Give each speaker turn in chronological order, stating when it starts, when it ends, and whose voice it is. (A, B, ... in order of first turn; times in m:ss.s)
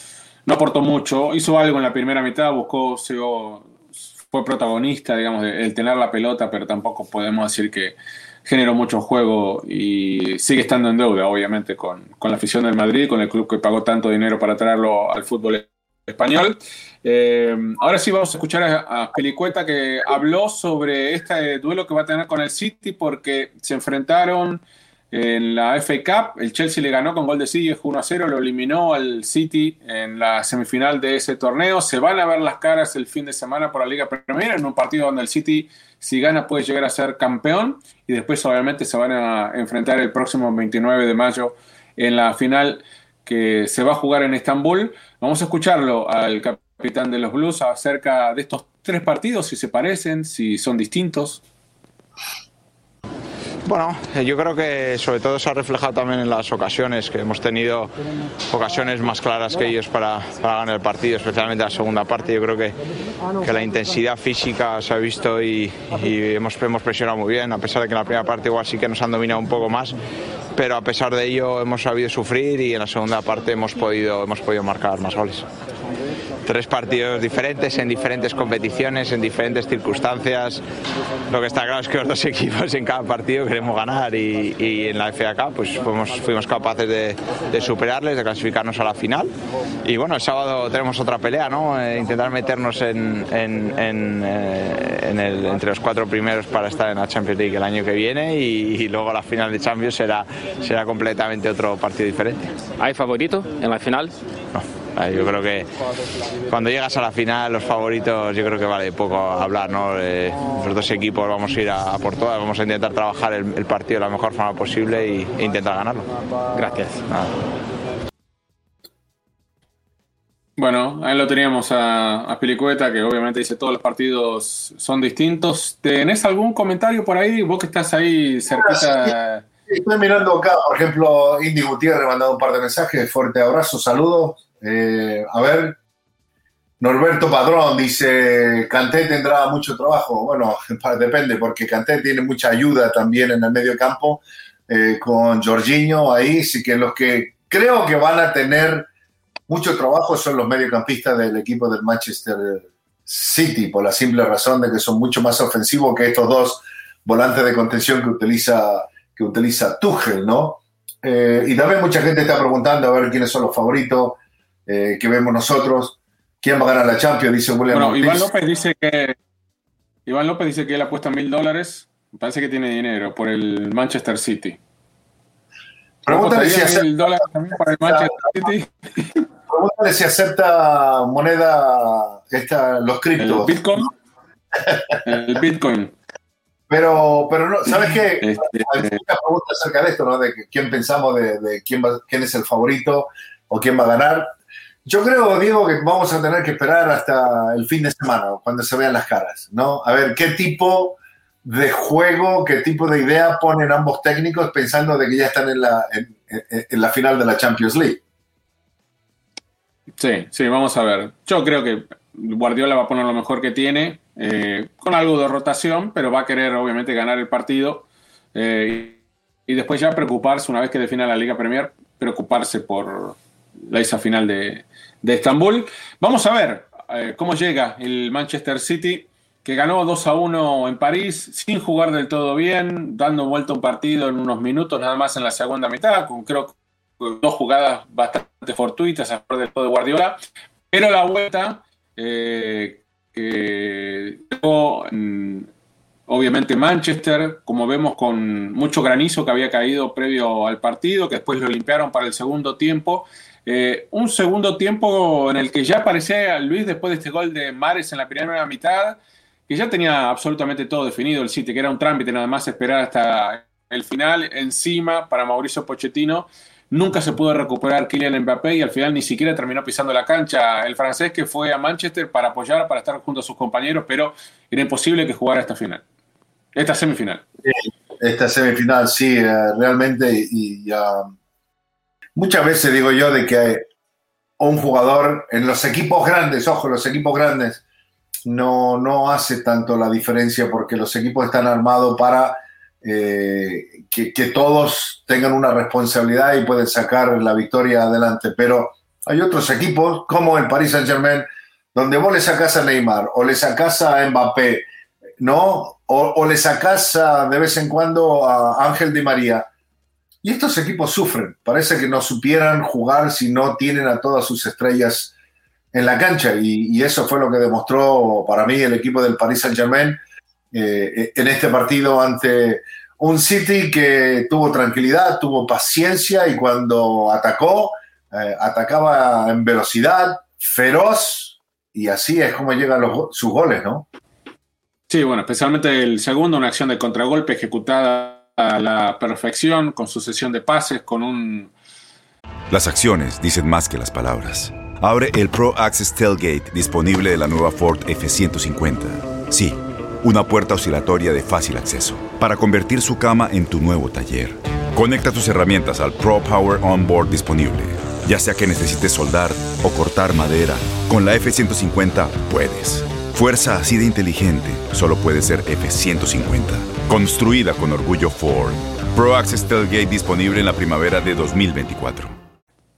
0:00.4-0:03.7 A
0:04.3-0:51.4 A
0:53.6-0:57.9 B
0:58.5-1:02.8 B
1:03.4-1:10.0 B
1:10.5-1:15.5 B
1:16.4-1:20.6 B
1:21.3-1:29.3 B
1:29.8-1:42.5 B
1:42.8-1:44.2 C
1:44.5-1:45.7 B
1:46.5-1:56.0 B
1:56.5-1:57.0 C
2:00.6-2:09.4 A
2:08.6-2:09.1 D
2:09.7-2:15.8 D
2:16.8-2:28.9 D
2:29.5-2:48.3 D
2:47.7-2:49.2 A
2:50.0-2:54.6 A
2:56.0-2:56.9 D
2:56.1-2:59.2 A
2:57.8-2:58.1 D
2:59.5-3:03.6 D
3:03.2-3:03.9 A
3:05.0-3:05.9 A
3:06.7-3:14.3 D
3:08.2-3:09.0 A
3:14.8-3:28.0 D
3:30.0-3:43.2 A
3:43.7-4:00.2 A
4:00.7-4:05.5 A
4:06.1-4:35.8 A
4:36.5-4:37.2 A
4:37.4-4:41.1 D
4:42.2-4:43.7 D
4:44.4-4:47.6 D
4:48.2-5:04.7 D
5:05.2-5:09.5 D
5:10.2-5:15.1 D
5:15.7-5:20.0 D
5:20.5-5:33.9 D
5:34.9-5:41.5 A
5:42.5-6:12.1 E